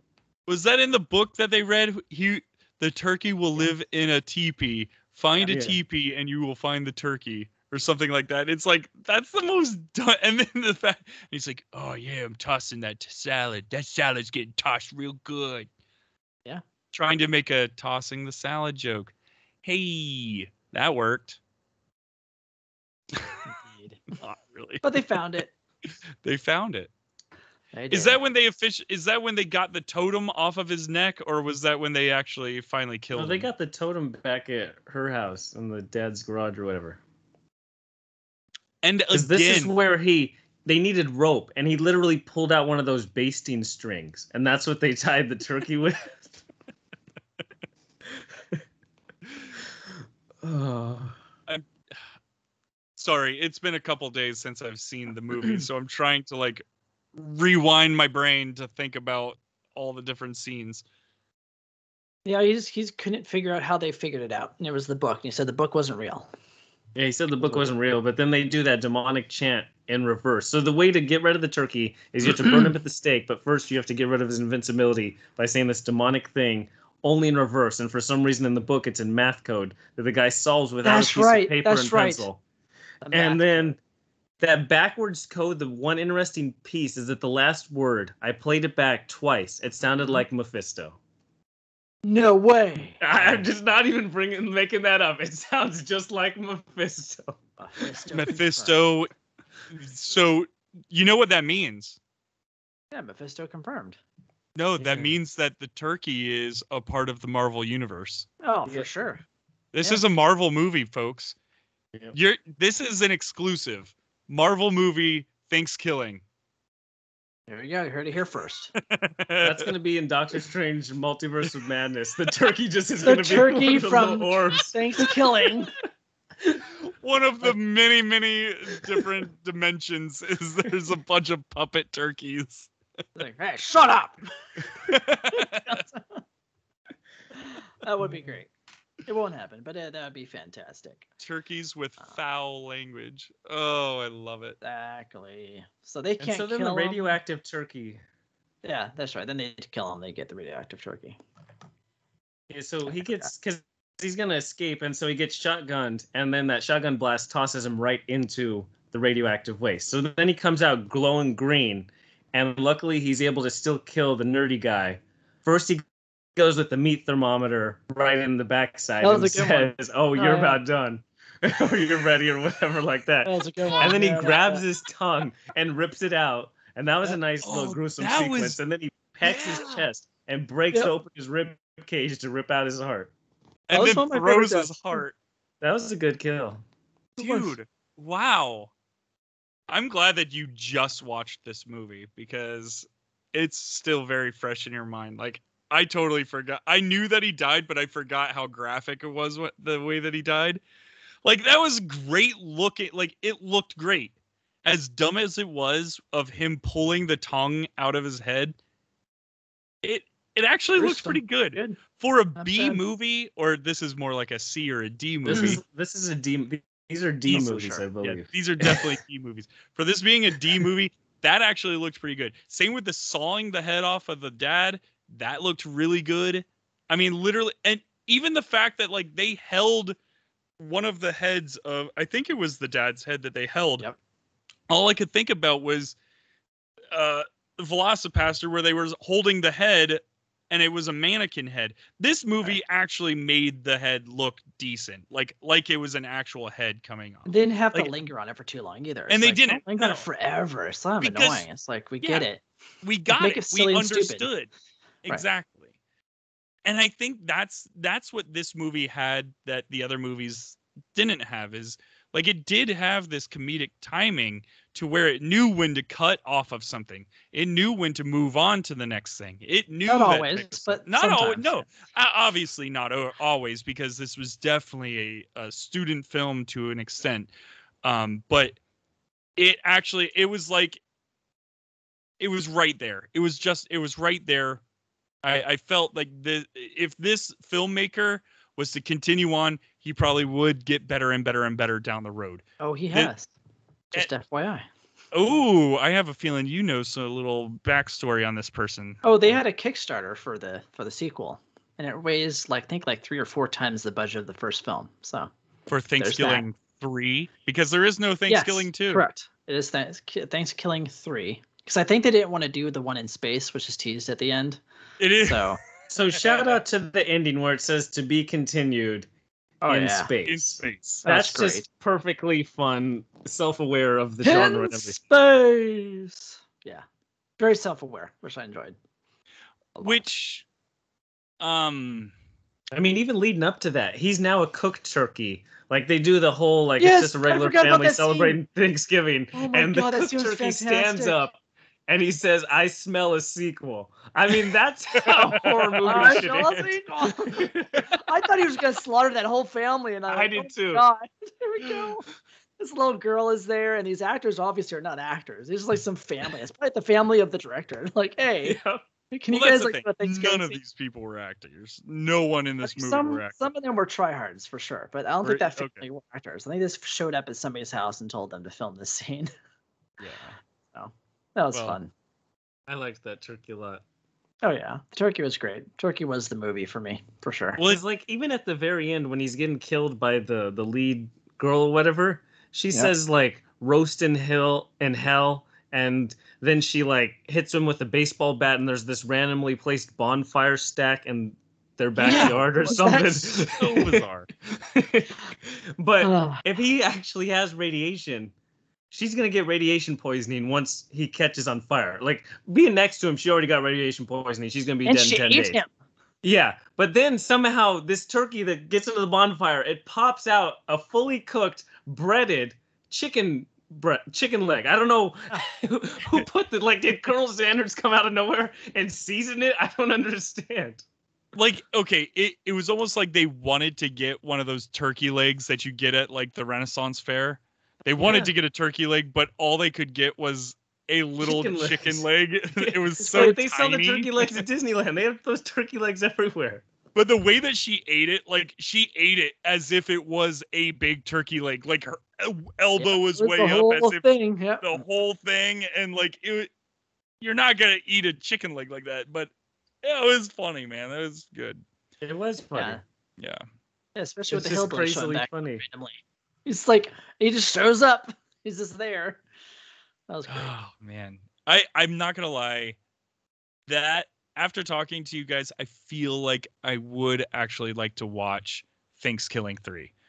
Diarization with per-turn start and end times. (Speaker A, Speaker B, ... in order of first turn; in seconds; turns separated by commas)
Speaker A: 0.5-15.7, Speaker B: 5.3-5.6, Speaker C: 5.5-5.8, Speaker A: 16.9-19.1, Speaker A: 19.6-21.4, Speaker B: 23.5-24.0, Speaker A: 24.2-24.9, Speaker B: 24.8-25.5, Speaker A: 26.2-26.9, Speaker B: 27.7-28.2, Speaker A: 27.9-33.5, Speaker C: 33.1-37.0, Speaker A: 38.8-39.7, Speaker C: 39.1-46.4, Speaker C: 50.4-51.2, Speaker A: 53.0-56.6, Speaker A: 57.1-60.8, Speaker B: 62.2-66.3, Speaker C: 67.0-82.4, Speaker B: 67.4-67.7, Speaker B: 72.4-72.7, Speaker B: 80.8-82.3, Speaker B: 83.0-83.7, Speaker C: 83.1-83.8, Speaker C: 84.4-91.0, Speaker B: 92.0-93.0, Speaker C: 93.0-97.9, Speaker B: 97.6-98.8, Speaker A: 98.1-99.1, Speaker A: 99.7-102.0, Speaker B: 102.9-104.0, Speaker A: 104.5-108.3, Speaker C: 104.8-105.2, Speaker B: 108.4-109.2, Speaker A: 109.7-111.3, Speaker A: 112.1-116.2, Speaker B: 117.5-118.7, Speaker A: 118.8-119.7, Speaker C: 119.4-124.8, Speaker B: 123.0-125.7, Speaker A: 123.4-123.7, Speaker A: 126.8-132.7, Speaker B: 133.1-134.2, Speaker A: 134.7-135.8, Speaker B: 135.3-136.2, Speaker B: 137.4-138.5, Speaker B: 139.1-141.1, Speaker A: 141.2-144.6, Speaker B: 144.6-147.2, Speaker C: 146.2-148.0, Speaker B: 148.6-151.2, Speaker C: 152.5-165.8, Speaker B: 152.9-153.3, Speaker C: 166.3-183.1, Speaker B: 169.0-170.6, Speaker B: 173.2-174.6, Speaker A: 177.4-178.6, Speaker A: 179.2-179.8, Speaker A: 183.7-185.1, Speaker B: 183.7-185.0, Speaker C: 185.6-186.6, Speaker B: 187.2-187.6, Speaker A: 187.2-188.7, Speaker A: 189.7-200.6, Speaker A: 201.2-204.1, Speaker A: 204.6-208.6, Speaker A: 209.8-215.6, Speaker B: 210.8-211.8, Speaker B: 212.3-212.8, Speaker C: 215.2-218.3, Speaker B: 215.3-215.6, Speaker B: 217.3-217.8, Speaker A: 218.0-229.9, Speaker A: 230.6-233.8, Speaker A: 234.7-235.9, Speaker A: 236.9-247.9, Speaker B: 247.2-252.4, Speaker A: 249.1-250.1, Speaker A: 251.0-251.4, Speaker A: 252.8-254.5, Speaker B: 253.1-254.3, Speaker A: 255.0-255.7, Speaker A: 256.6-277.3, Speaker B: 269.9-271.6, Speaker A: 277.8-278.6, Speaker A: 279.4-280.8, Speaker A: 282.2-284.6, Speaker A: 285.2-293.1, Speaker B: 292.6-293.3, Speaker B: 293.9-294.6, Speaker A: 295.1-299.1, Speaker B: 299.0-305.3, Speaker A: 305.7-309.0, Speaker B: 306.0-306.4, Speaker B: 308.3-314.6, Speaker A: 315.0-315.6, Speaker B: 315.2-315.6, Speaker C: 315.9-319.1, Speaker A: 316.1-316.6, Speaker B: 319.6-320.1, Speaker C: 319.7-325.0, Speaker A: 320.2-321.1, Speaker B: 321.0-321.6, Speaker B: 324.2-326.8, Speaker B: 327.4-328.8, Speaker B: 329.8-330.0, Speaker A: 329.8-330.4, Speaker A: 331.4-332.1, Speaker C: 332.7-341.3, Speaker B: 336.8-338.4, Speaker B: 339.3-341.2, Speaker C: 341.9-346.7, Speaker A: 345.0-346.2, Speaker B: 345.8-352.0, Speaker C: 347.2-347.9, Speaker C: 350.1-350.8, Speaker B: 352.6-358.6, Speaker C: 358.4-358.8, Speaker B: 359.1-360.6, Speaker A: 359.3-363.4, Speaker B: 362.6-369.3, Speaker A: 365.2-365.9, Speaker A: 370.0-370.4, Speaker B: 370.7-371.9, Speaker A: 371.5-371.8, Speaker C: 372.7-373.8, Speaker B: 374.4-377.6, Speaker C: 377.6-393.9, Speaker B: 392.0-393.5, Speaker A: 392.0-394.3, Speaker C: 394.5-398.3, Speaker B: 396.0-396.4, Speaker C: 398.9-405.6, Speaker B: 404.8-405.7, Speaker C: 406.2-420.8, Speaker A: 421.3-434.4, Speaker B: 428.0-428.3, Speaker C: 431.2-436.6, Speaker B: 433.0-433.4, Speaker A: 436.9-444.1, Speaker B: 442.8-444.8, Speaker A: 444.6-446.5, Speaker A: 447.2-449.3, Speaker A: 449.8-451.6, Speaker C: 452.0-452.8, Speaker B: 452.5-452.8, Speaker B: 453.9-459.2, Speaker C: 454.3-455.6, Speaker B: 460.1-460.5, Speaker A: 460.3-462.8, Speaker A: 463.7-469.9